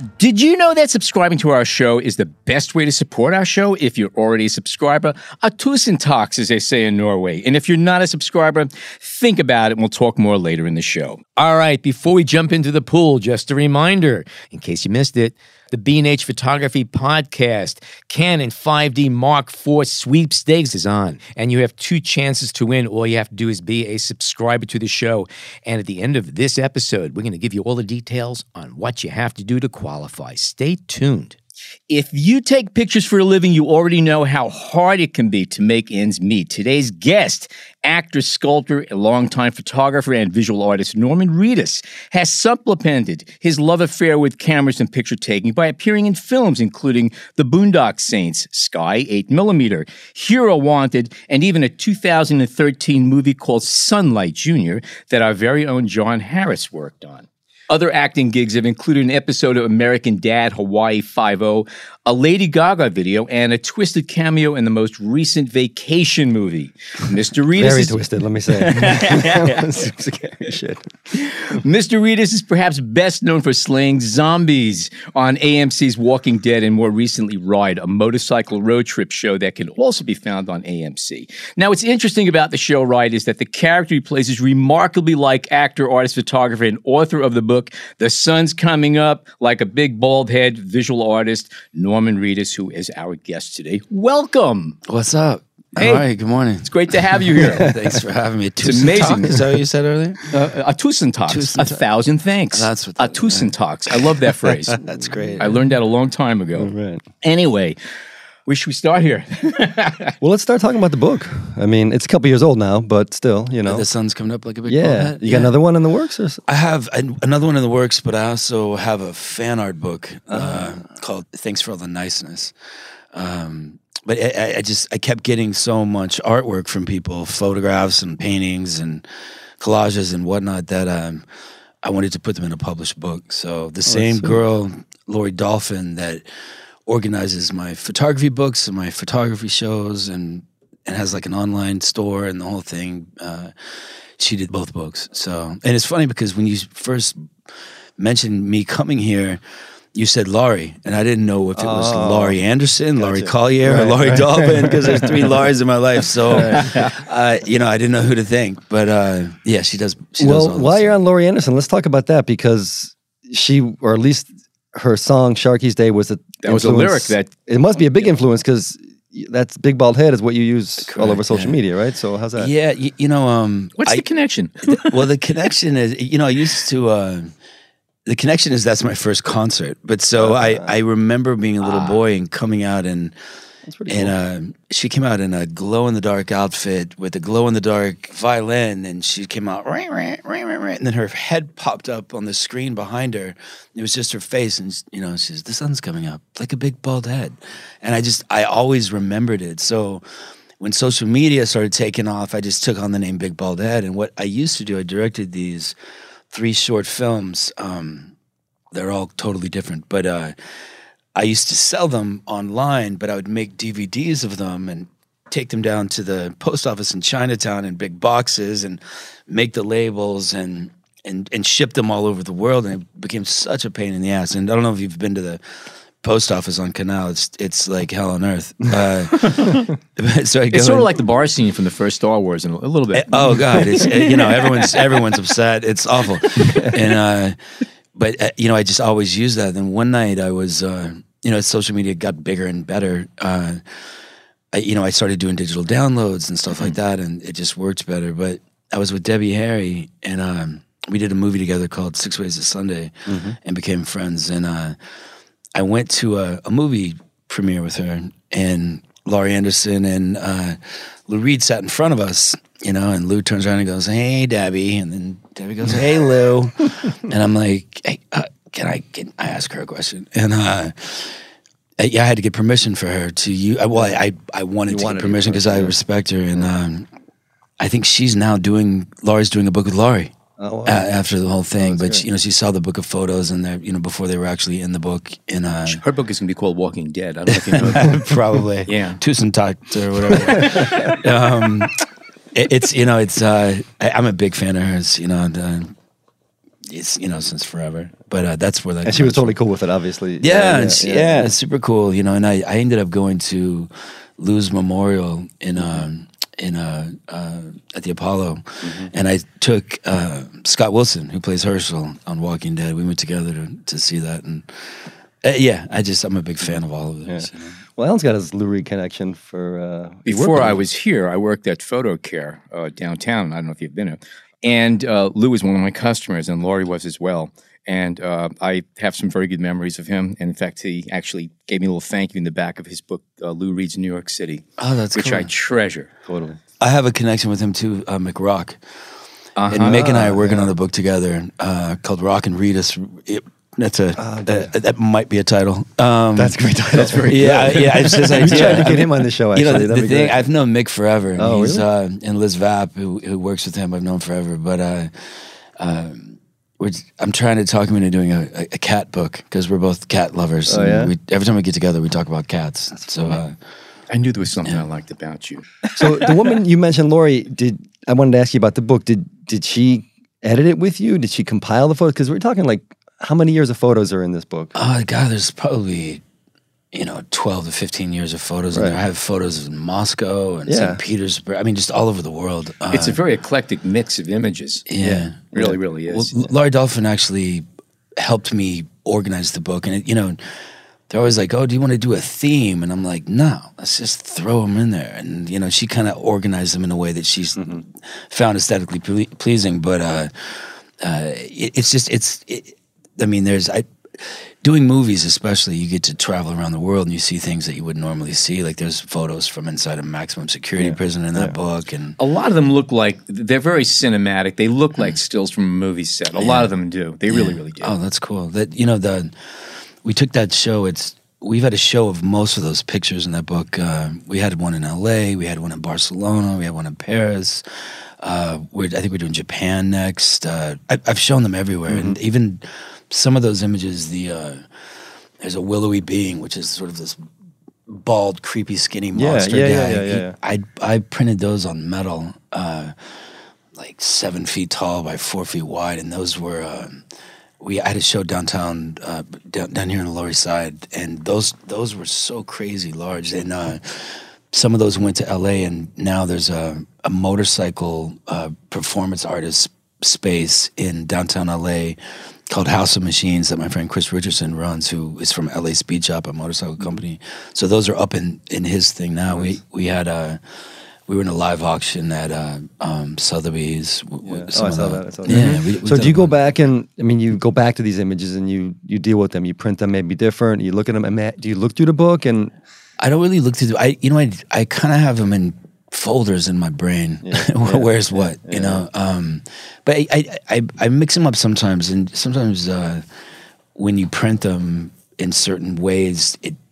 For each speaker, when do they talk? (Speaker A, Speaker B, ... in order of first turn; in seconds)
Speaker A: 0.2-31.4, 31.9-69.9, 71.1-94.8, 95.8-96.0, 96.6-97.7, 98.6-99.3, 100.3-104.8, 105.4-107.8, 108.5-110.1, 156.5-156.9, 166.4-167.3, 173.8-175.0, 181.6-182.0, 229.2-229.7, 230.5-234.4, 285.6-289.0, 320.1-335.9, 339.4-339.9, 346.7-348.7, 363.9-366.0, 382.7-384.6, 385.3-386.3, 412.0-417.7, 475.1-475.4
Speaker B: 67.5-70.9, 104.9-105.5, 106.6-107.0, 110.2-113.9, 114.7-116.4, 120.3-120.8, 133.9-134.4, 151.6-152.4, 153.0-155.4, 156.3-156.7, 160.2-172.5, 180.2-180.7, 183.7-184.2, 253.1-253.3, 273.7-274.0, 274.7-275.8, 280.4-280.9, 281.6-282.0, 290.3-290.7, 298.8-301.3, 305.6-305.8, 308.6-308.9, 317.1-320.6, 336.1-336.4, 339.6-340.5, 344.0-344.5, 346.1-350.3, 351.2-351.6, 360.5-360.9, 365.7-374.5, 378.5-378.8, 380.5-380.8, 384.8-385.6, 397.4-397.6, 410.6-411.4, 431.7-432.0, 438.9-440.2, 474.0-482.3, 487.0-488.6
Speaker C: 94.8-96.7, 97.3-100.3, 101.3-101.8, 102.5-103.5, 104.8-105.5, 113.7-115.5, 116.5-122.5, 123.1-129.0, 129.6-131.2, 131.8-136.2, 136.8-143.5, 144.2-147.2, 148.0-149.4, 149.9-160.9, 170.8-171.6, 172.3-174.0, 174.6-177.3, 178.1-183.1, 183.9-200.0, 200.6-205.8, 206.3-208.1, 208.7-210.3, 211.1-225.4, 226.0-230.9, 232.9-237.4, 237.9-243.6, 244.5-254.8, 255.5-271.2, 271.8-276.9, 277.6-280.1, 280.6-285.8, 287.3-295.7, 296.7-299.4, 300.2-317.6, 334.6-335.3, 336.6-338.6, 339.5-346.4, 347.1-354.9, 355.6-363.4, 374.6-376.0, 376.7-383.0, 384.7-387.4, 388.0-390.2, 390.9-412.0, 416.1-416.5, 417.1-419.1, 419.8-427.4, 428.0-434.4, 435.2-437.1, 437.7-442.7, 443.6-446.8, 447.4-461.8, 462.3-470.2, 470.9-476.1, 482.8-492.8, 493.5-496.4